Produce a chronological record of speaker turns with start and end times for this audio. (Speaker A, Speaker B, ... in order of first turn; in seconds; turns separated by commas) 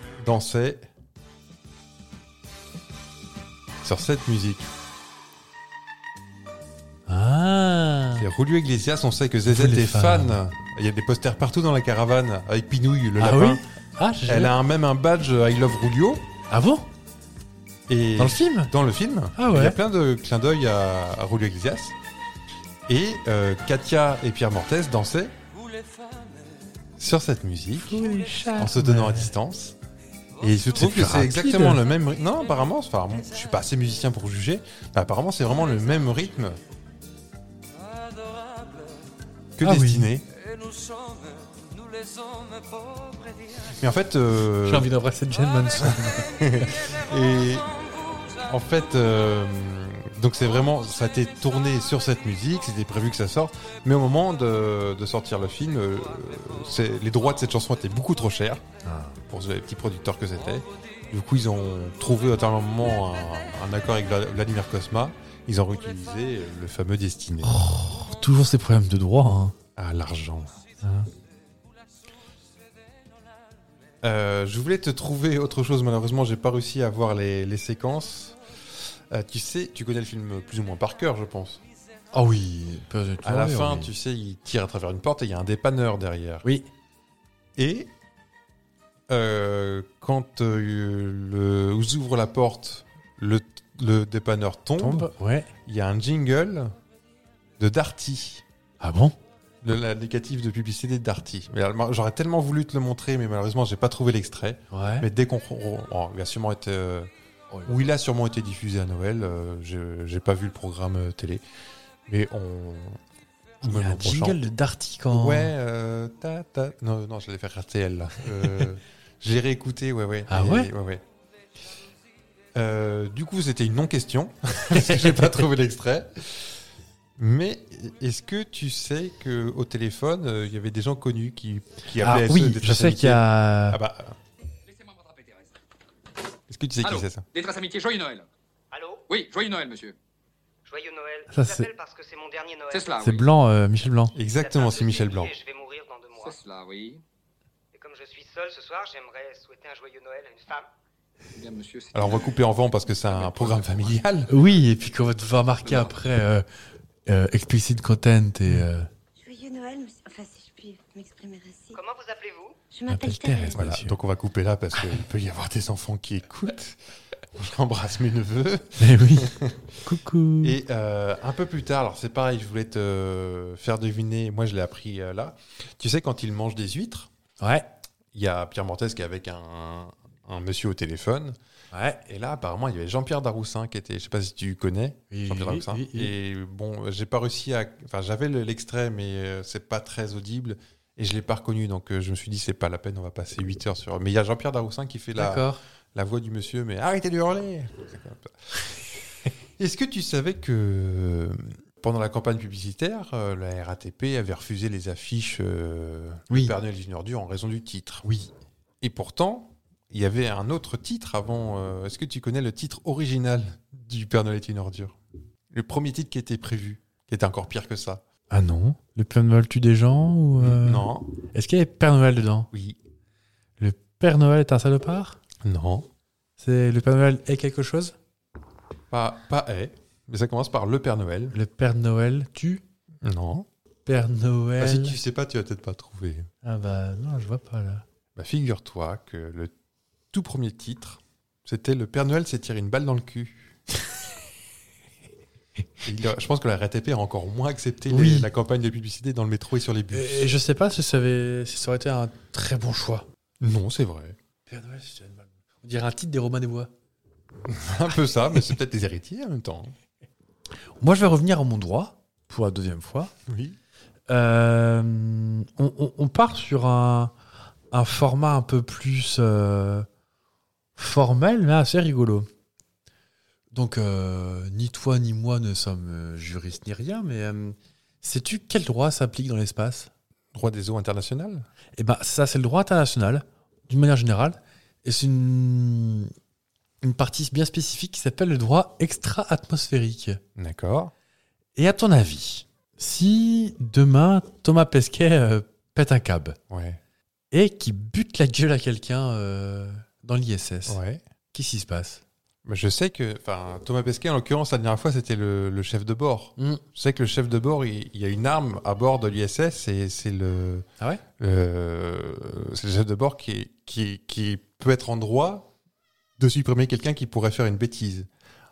Speaker A: 0.2-0.9, Speaker A: 3.8-4.7, Speaker B: 7.1-8.3, Speaker A: 8.2-13.6, Speaker B: 9.5-10.4, Speaker B: 13.2-14.5, Speaker A: 14.3-16.3, Speaker B: 16.5-16.9, Speaker A: 17.9-22.0, Speaker B: 18.2-18.7, Speaker B: 19.4-19.8, Speaker A: 22.9-25.4, Speaker A: 27.0-28.1, Speaker B: 27.8-29.3, Speaker A: 28.6-29.8, Speaker A: 30.4-36.6, Speaker B: 30.5-31.8, Speaker A: 39.6-40.3, Speaker B: 39.6-40.1, Speaker A: 43.7-44.9, Speaker B: 44.6-46.7, Speaker A: 45.8-47.7, Speaker A: 48.4-58.6, Speaker B: 58.8-59.2, Speaker A: 59.3-67.5, Speaker B: 67.4-69.5, Speaker A: 69.8-70.6, Speaker B: 70.8-71.1, Speaker A: 74.0-81.6, Speaker B: 82.1-83.9, Speaker A: 83.2-86.5, Speaker A: 87.6-87.9, Speaker A: 89.1-95.1, Speaker B: 94.8-95.5, Speaker A: 95.7-96.7, Speaker A: 97.6-98.4, Speaker B: 98.8-99.2, Speaker A: 99.6-107.1, Speaker B: 104.7-105.1, Speaker B: 107.5-107.8, Speaker A: 107.7-111.4, Speaker A: 112.1-113.0, Speaker A: 113.6-114.4, Speaker B: 113.6-115.5, Speaker A: 115.1-121.0, Speaker B: 120.3-120.7, Speaker A: 122.5-126.6, Speaker B: 124.7-125.5, Speaker A: 127.2-134.2, Speaker B: 132.0-133.8, Speaker C: 134.7-135.6, Speaker A: 136.5-137.2, Speaker C: 136.8-138.3, Speaker D: 138.7-139.0, Speaker C: 139.1-140.0, Speaker D: 140.7-143.0, Speaker B: 141.3-141.7, Speaker C: 142.7-143.3, Speaker B: 143.0-144.1, Speaker A: 144.2-145.3, Speaker D: 144.4-146.4, Speaker C: 146.2-147.0, Speaker D: 147.7-150.7, Speaker C: 151.4-152.4, Speaker A: 151.9-154.3, Speaker C: 153.1-154.0, Speaker B: 154.3-156.4, Speaker B: 157.1-158.9, Speaker E: 159.2-161.8, Speaker D: 161.8-162.6, Speaker E: 162.7-163.7, Speaker B: 162.9-164.0, Speaker A: 163.6-166.8, Speaker A: 167.3-169.8, Speaker B: 168.8-170.6, Speaker A: 170.4-177.1, Speaker B: 177.4-177.7, Speaker A: 178.1-181.4, Speaker B: 181.7-182.0, Speaker A: 182.1-199.0, Speaker B: 185.1-186.1, Speaker B: 195.2-195.6, Speaker A: 199.6-208.1, Speaker B: 206.3-206.6, Speaker B: 208.0-208.3, Speaker A: 208.8-215.0, Speaker A: 215.5-218.0, Speaker B: 218.3-222.5, Speaker A: 220.3-221.1, Speaker A: 222.5-222.8, Speaker B: 223.6-225.2, Speaker A: 225.4-225.9, Speaker B: 226.4-227.9, Speaker A: 228.9-231.4, Speaker B: 231.3-232.6, Speaker A: 233.0-233.5, Speaker B: 233.9-235.0, Speaker A: 234.6-236.3, Speaker B: 236.4-237.8, Speaker A: 238.2-239.5, Speaker A: 240.1-243.6, Speaker A: 245.8-250.3, Speaker B: 247.9-248.3, Speaker B: 249.9-253.1, Speaker A: 253.4-254.2, Speaker B: 254.5-256.7, Speaker A: 257.5-259.7, Speaker B: 260.8-263.1, Speaker A: 263.3-263.6, Speaker B: 264.1-267.1, Speaker B: 267.7-269.9, Speaker B: 270.8-272.3, Speaker B: 273.5-279.9, Speaker A: 280.3-281.5, Speaker B: 281.8-286.1, Speaker B: 286.8-290.2, Speaker A: 290.4-290.9, Speaker B: 291.6-296.4, Speaker A: 296.5-296.8, Speaker B: 297.3-300.8, Speaker A: 300.7-301.0, Speaker B: 301.3-302.0, Speaker A: 302.4-310.7, Speaker B: 306.4-306.6, Speaker A: 311.2-315.5, Speaker A: 316.2-318.1